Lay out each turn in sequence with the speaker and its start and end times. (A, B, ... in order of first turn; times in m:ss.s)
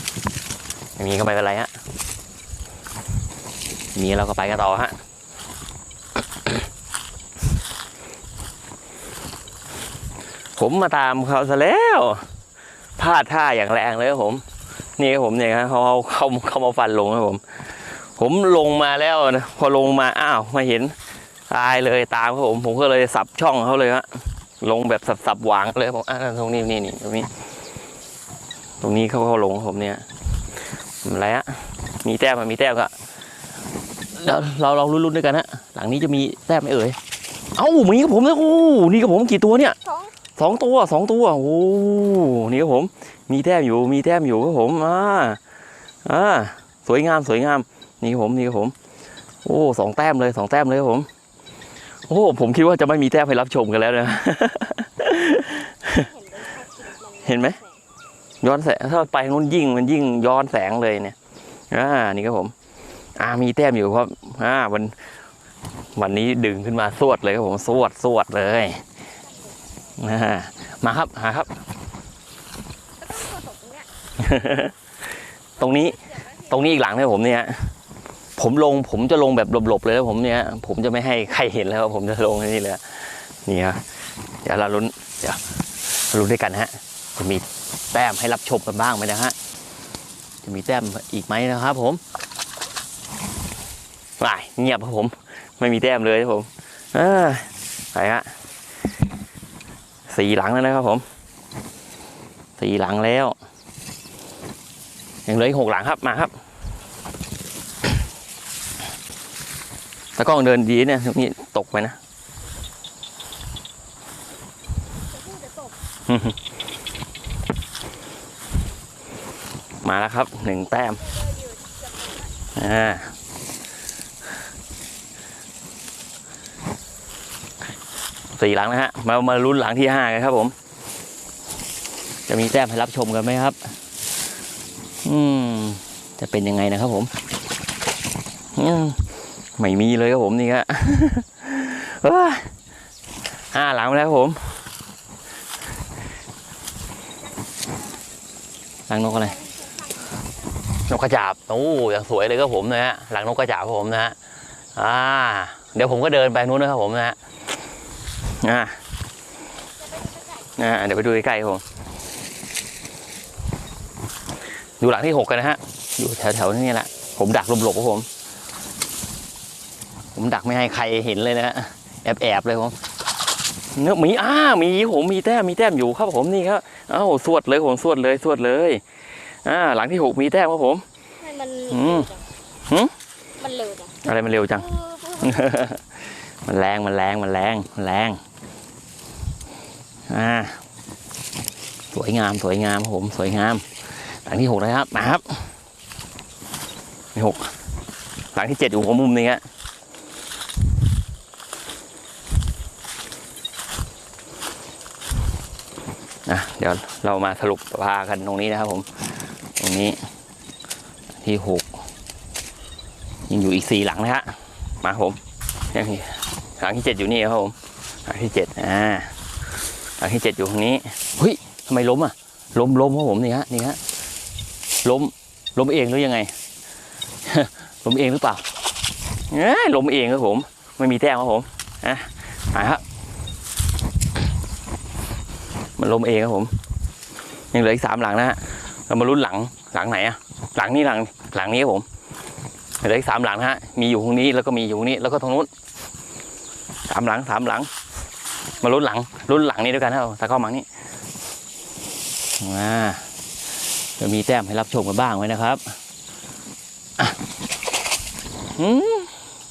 0:01.0-0:01.7 A
0:03.9-0:05.0 A
0:10.6-0:12.2 A
0:13.0-0:14.4 A
0:15.0-0:20.9 A
0:21.5-0:27.3 A
0:28.8-0:30.0 A
0:31.0-0:32.9 A
0:34.1-0:37.0 A
0:37.5-0:39.8 A
0:39.8-0:40.1 B
0:40.4-0:45.4 A
0:46.0-0:48.7 A
0:49.4-0:51.1 A
0:52.1-0:56.1 A
0:55.9-0:57.8 B
0:57.2-0:57.6 A
0:58.4-1:01.2 A
1:01.7-1:02.5 A
1:03.2-1:04.9 A
1:06.0-1:08.8 A
1:10.0-1:11.6 A
1:13.0-1:13.9 B
1:14.2-1:14.7 A
1:15.6-1:17.7 A
1:18.4-1:23.8 A
1:24.4-1:25.4 A
1:25.9-1:29.3 A
1:30.4-1:32.0 A
1:34.2-1:38.3 A
1:40.1-1:41.0 A
1:42.6-1:43.4 A
1:45.2-1:46.3 A
1:50.2-1:52.0 A
1:55.1-1:55.8 B
1:56.1-1:56.4 A
1:59.8-2:01.0 A
2:01.1-2:02.3 B
2:02.5-2:03.1 A
2:08.3-2:10.5 A
2:12.3-2:13.7 A
2:15.0-2:17.1 A
2:18.5-2:19.0 A
2:19.6-2:22.5 A
2:23.5-2:24.6 A
2:28.9-2:29.4 A
2:29.4-2:30.0 B
2:30.9-2:34.2 A
2:34.8-2:37.2 A
2:38.3-2:38.8 A
2:39.9-2:40.2 B
2:40.6-2:41.6 A
2:44.8-2:48.1 A
2:50.1-2:52.8 A
2:53.7-2:58.8 A
2:59.4-3:00.8 A
3:01.2-3:02.2 B
3:01.7-3:02.1 A
3:02.7-3:02.9 A
3:03.4-3:05.4 B
3:04.0-3:05.9 A
3:06.4-3:08.2 A
3:10.1-3:10.6 A
3:11.9-3:15.5 A
3:17.1-3:17.5 A
3:18.3-3:19.4 A
3:26.3-3:28.9 A
3:29.6-3:30.0 A
3:31.2-3:31.8 A
3:33.3-3:35.2 A
3:35.7-3:39.1 A
3:40.0-3:43.8 A
3:44.8-3:46.3 A
3:47.2-3:48.4 A
3:49.3-3:52.8 A
3:55.8-3:56.5 A
3:57.5-4:01.8 A
4:02.8-4:05.5 A
4:06.9-4:07.7 A
4:08.5-4:10.6 A
4:12.4-4:13.0 A
4:14.0-4:15.8 A
4:18.5-4:19.1 A